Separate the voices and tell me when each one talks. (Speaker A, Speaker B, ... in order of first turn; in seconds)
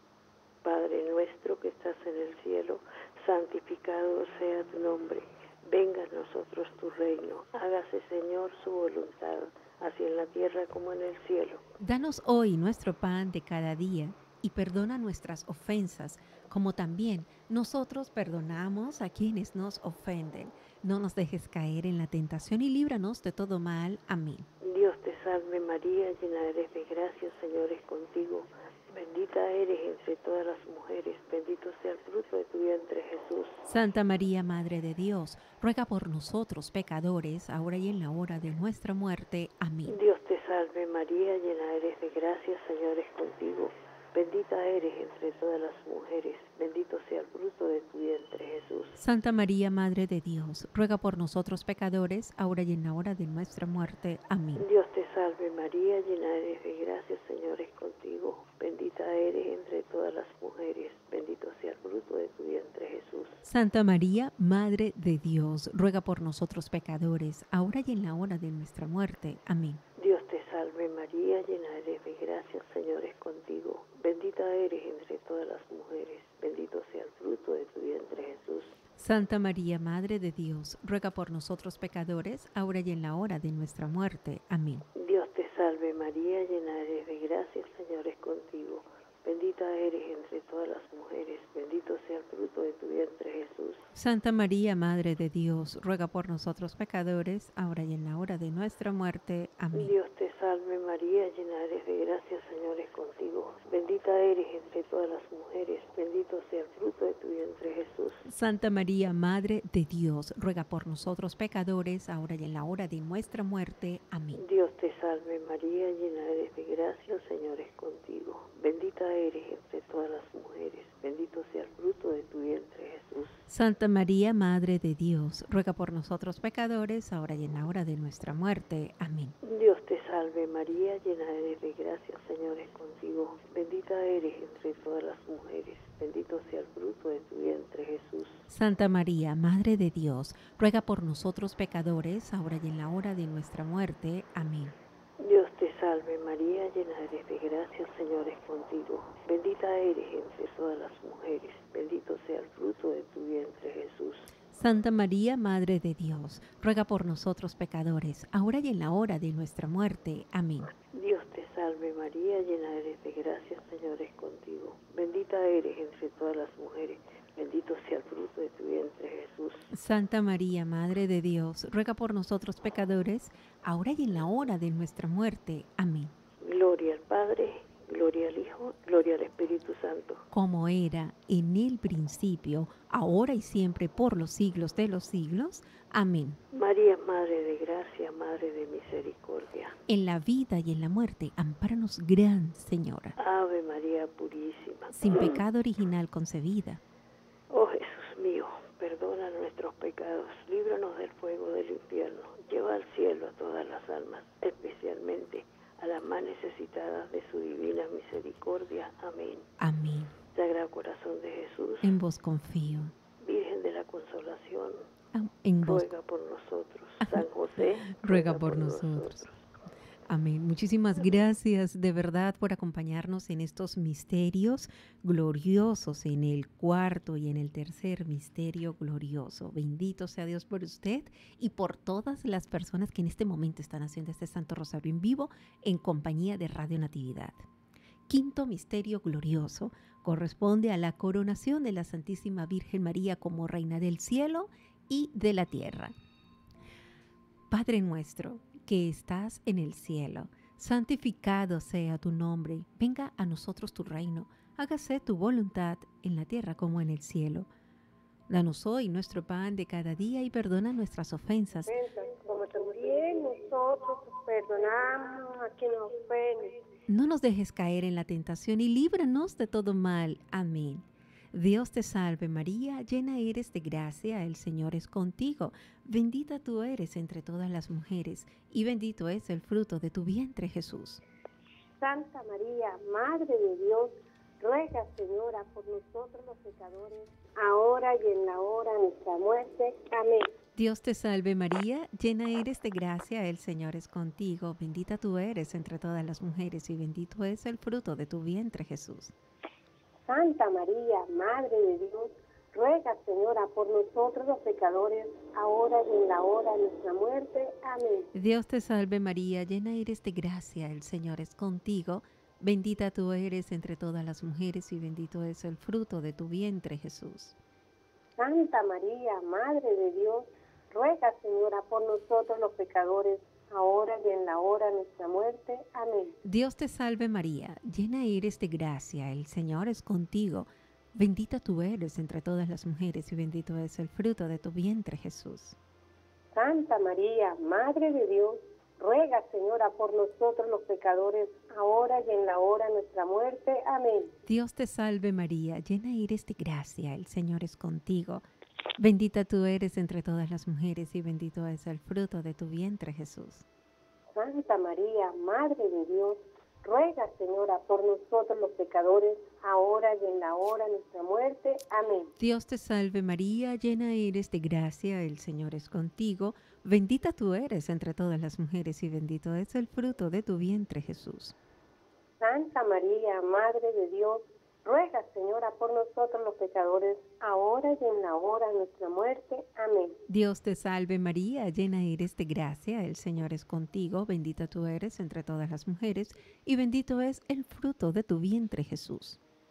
Speaker A: 0.6-11.6, 24.6-33.6, 39.9-49.0, 54.5-63.4, 70.0-78.8, 84.9-93.9, 99.7-108.2, 114.3-123.4, 129.4-138.5, 145.2-154.3, 160.8-169.7, 176.4-180.2, 186.5-189.8, 193.2-195.4, 197.5-209.5, 210.3-211.9, 213.2-214.8, 215.6-219.4
Speaker B: 11.8-24.5, 33.7-40.0, 49.0-54.6, 63.4-69.8, 79.0-84.8, 93.9-99.9, 108.2-114.4, 123.5-129.3, 138.5-144.8, 154.5-160.7, 169.7-176.1, 180.3-186.4, 189.9-193.2, 194.9-196.8, 209.6-210.1, 211.8-212.9, 215.1-215.9, 217.0-217.3, 218.0-219.2, 220.1-237.4, 238.1-245.9, 247.5-257.5, 258.3-261.7, 266.9-281.0, 290.6-299.1, 308.1-317.4, 326.2-335.6, 344.3-348.2, 348.8-353.4, 362.2-371.3, 380.1-389.2
Speaker C: 261.6-266.6, 281.8-290.3, 300.1-308.1, 318.2-326.2, 336.3-344.1, 354.1-362.1, 372.2-380.0